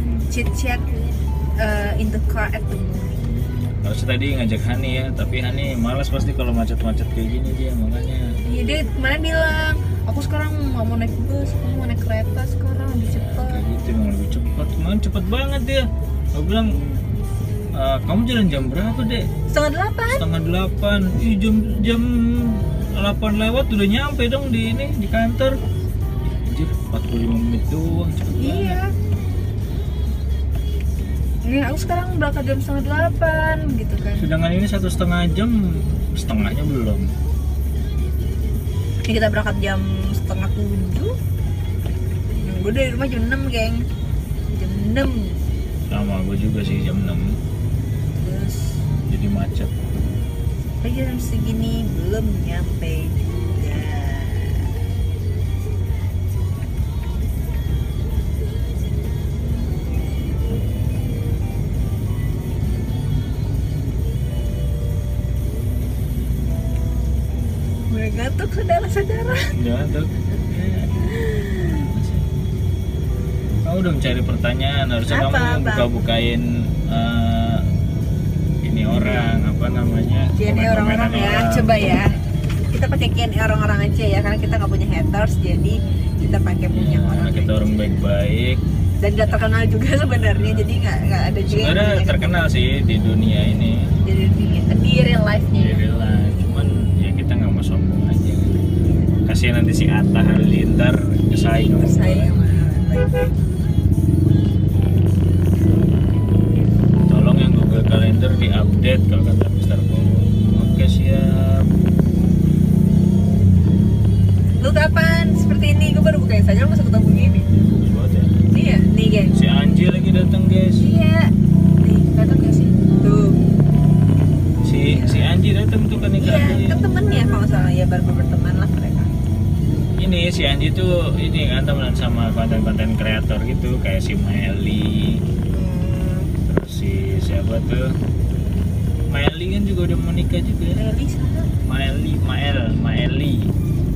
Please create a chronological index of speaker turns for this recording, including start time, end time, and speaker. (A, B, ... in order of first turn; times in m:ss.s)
0:00.3-0:00.8 A
0:01.6-0:03.2 A
0:03.8-0:08.3 B
0:08.4-0:13.6 A
0:13.2-0:16.8 B
0:17.8-0:19.3 B
0:19.5-0:20.2 A
0:20.2-0:25.6 B
0:26.4-0:28.8 B
0:28.4-0:28.9 A
0:31.4-0:34.3 A
0:34.2-0:37.1 B
0:39.1-0:41.2 A
0:42.4-0:43.8 A
0:44.5-0:45.4 A
0:45.9-0:47.4 B
0:48.2-0:48.8 A
0:49.1-0:49.7 B
0:50.8-0:54.7 A
1:07.9-1:09.5 A
1:09.6-1:12.3 B
1:13.6-1:17.7 B
1:15.1-1:15.9 A
1:18.6-1:22.0 B
1:20.4-1:22.2 A
1:22.7-1:27.6 A
1:26.7-1:28.6 B
1:29.0-1:32.4 A
1:30.2-1:30.7 B
1:31.4-1:33.9 B
1:34.0-1:35.8 A
1:35.5-1:38.7 B
1:39.3-1:42.3 B
1:41.4-1:43.3 A
1:47.1-1:51.7 B
1:54.6-1:57.5 A
1:57.8-1:58.3 B
1:58.5-1:59.3 A
1:59.3-2:00.9 B
2:00.8-2:03.4 A
2:04.6-2:06.8 B
2:04.8-2:05.4 A
2:06.2-2:09.1 A
2:10.0-2:15.2 B
2:15.5-2:16.3 A
2:16.4-2:18.0 B
2:19.1-2:20.8 B
2:20.8-2:21.5 A
2:21.6-2:23.5 B